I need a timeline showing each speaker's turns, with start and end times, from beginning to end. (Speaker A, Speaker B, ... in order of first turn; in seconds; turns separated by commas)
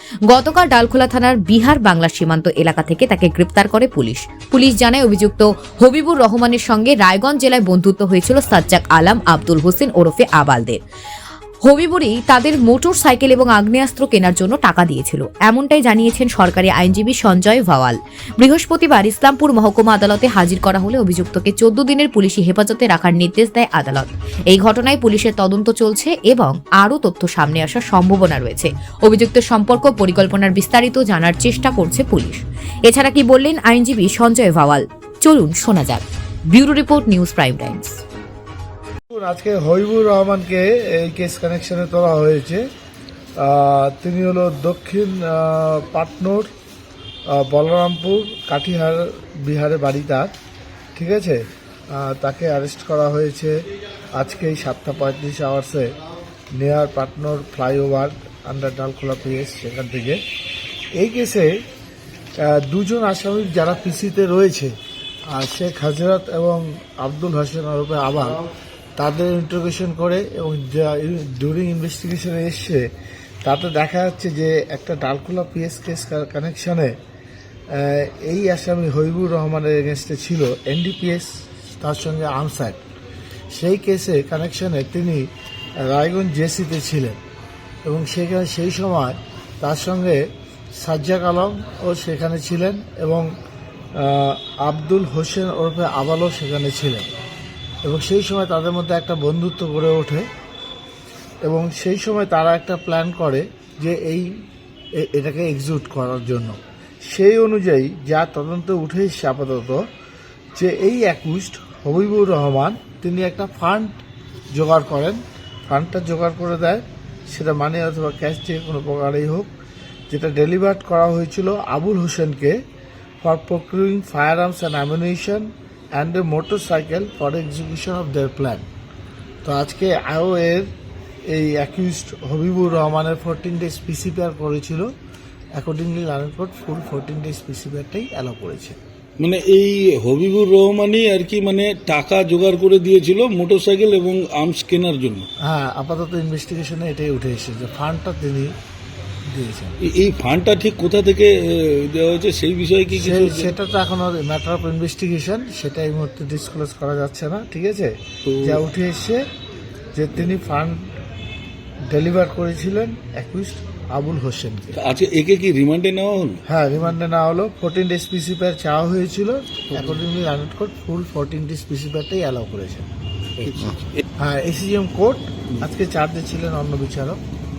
Speaker A: 0.3-10.8, Speaker A: 11.6-38.0, Speaker B: 39.1-42.6, Speaker B: 43.4-46.5, Speaker B: 47.3-50.3, Speaker B: 50.9-53.5, Speaker B: 54.1-55.9, Speaker B: 56.5-60.2, Speaker B: 61.0-61.5, Speaker B: 62.4-64.7, Speaker B: 65.3-68.4, Speaker B: 69.0-72.8, Speaker B: 73.4-76.9, Speaker B: 77.7-82.8, Speaker B: 83.5-85.2, Speaker B: 85.8-87.2, Speaker B: 87.8-90.2, Speaker B: 90.8-93.3, Speaker B: 94.0-97.1, Speaker B: 97.8-100.2, Speaker B: 101.4-104.3, Speaker B: 105.0-106.6, Speaker B: 107.1-109.8, Speaker B: 110.5-114.0, Speaker B: 114.5-119.5, Speaker B: 120.1-122.5, Speaker B: 123.2-128.6, Speaker B: 129.4-130.7, Speaker B: 131.3-134.9, Speaker B: 135.6-138.8, Speaker C: 139.2-145.2, Speaker B: 145.4-148.5, Speaker B: 149.3-149.8, Speaker C: 149.8-153.5, Speaker B: 152.9-159.2, Speaker C: 158.2-158.6, Speaker B: 159.9-160.8, Speaker B: 161.9-164.8, Speaker C: 164.7-166.4, Speaker B: 166.4-172.8, Speaker C: 173.4-174.0, Speaker B: 174.2-177.2